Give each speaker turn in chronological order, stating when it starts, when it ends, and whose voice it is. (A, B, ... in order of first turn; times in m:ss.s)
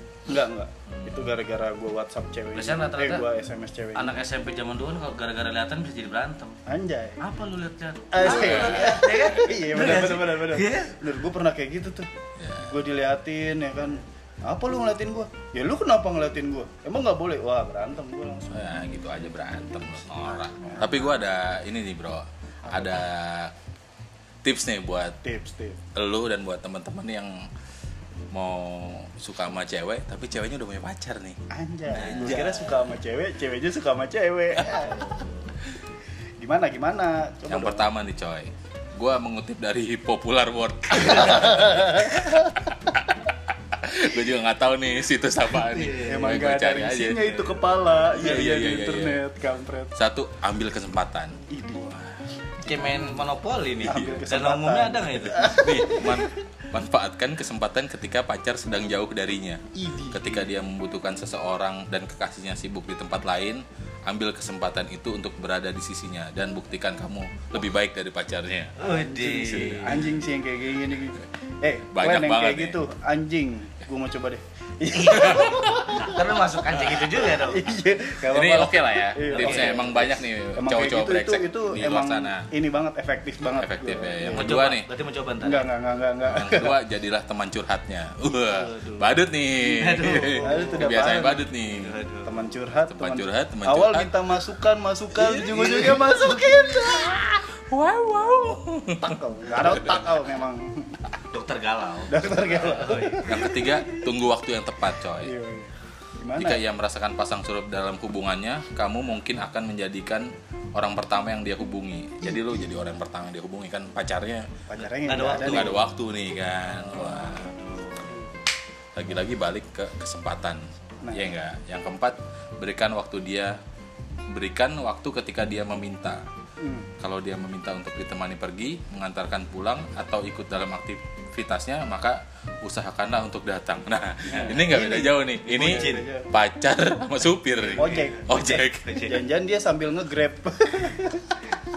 0:00.3-0:04.1 A
0:00.9-0:01.3 B
0:02.5-0:03.2 B
0:03.9-0:06.6 B
0:06.6-0:07.2 A
0:07.2-0:11.0 B
0:08.1-0:12.1 A
0:08.2-0:09.2 C
0:12.4-0:12.7 C
0:12.6-0:18.7 A
0:18.5-0:23.5 C
0:20.6-0:20.9 B
0:22.7-0:23.0 A
0:24.4-0:25.2 C
0:25.2-0:25.8 A
0:25.9-0:27.5 C
0:28.3-0:31.4 C
0:31.5-0:35.1 A
0:31.9-0:32.9 B
0:32.1-0:32.4 C
0:34.7-0:35.6 B
0:36.4-0:37.9 A
0:37.5-0:42.5 C
0:41.0-0:42.7 A
0:43.7-0:47.4 C
0:45.6-0:46.3 B
0:46.0-0:49.9 A
0:48.0-0:49.2 C
0:50.0-0:51.4 C
0:51.5-0:52.0 A
0:52.6-0:55.9 B
0:52.7-0:53.2 A
0:53.8-0:56.3 A
0:53.9-0:54.2 C
0:55.4-1:08.7 C
0:59.7-1:00.5 A
1:08.8-1:10.1 B
1:08.8-1:16.4 A
1:11.9-1:12.8 C
1:14.9-1:17.7 B
1:15.2-1:15.6 C
1:17.2-1:24.6 A
1:18.2-1:22.5 C
1:19.3-1:19.8 B
1:23.5-1:24.9 C
1:24.3-1:25.7 B
1:25.4-1:26.8 A
1:26.3-1:31.9 C
1:28.5-1:30.9 B
1:30.3-1:31.5 A
1:31.7-1:32.3 B
1:32.2-1:37.5 A
1:32.9-1:34.1 C
1:35.2-1:40.1 C
1:38.3-1:41.0 A
1:41.3-1:43.7 B
1:42.1-1:43.9 A
1:43.2-1:45.3 C
1:45.2-1:46.6 A
1:46.4-1:54.5 C
1:52.2-1:52.7 A
1:54.7-1:55.8 A
1:54.8-1:55.8 B
1:55.4-1:57.5 C
1:56.7-1:58.3 B
1:58.9-2:03.6 C
2:01.0-2:01.4 A
2:04.3-2:06.2 C
2:06.6-2:06.9 A
2:07.0-2:19.0 C
2:14.3-2:14.6 B
2:14.3-2:16.3 A
2:15.5-2:16.1 B
2:17.6-2:19.2 B
2:17.8-2:21.4 A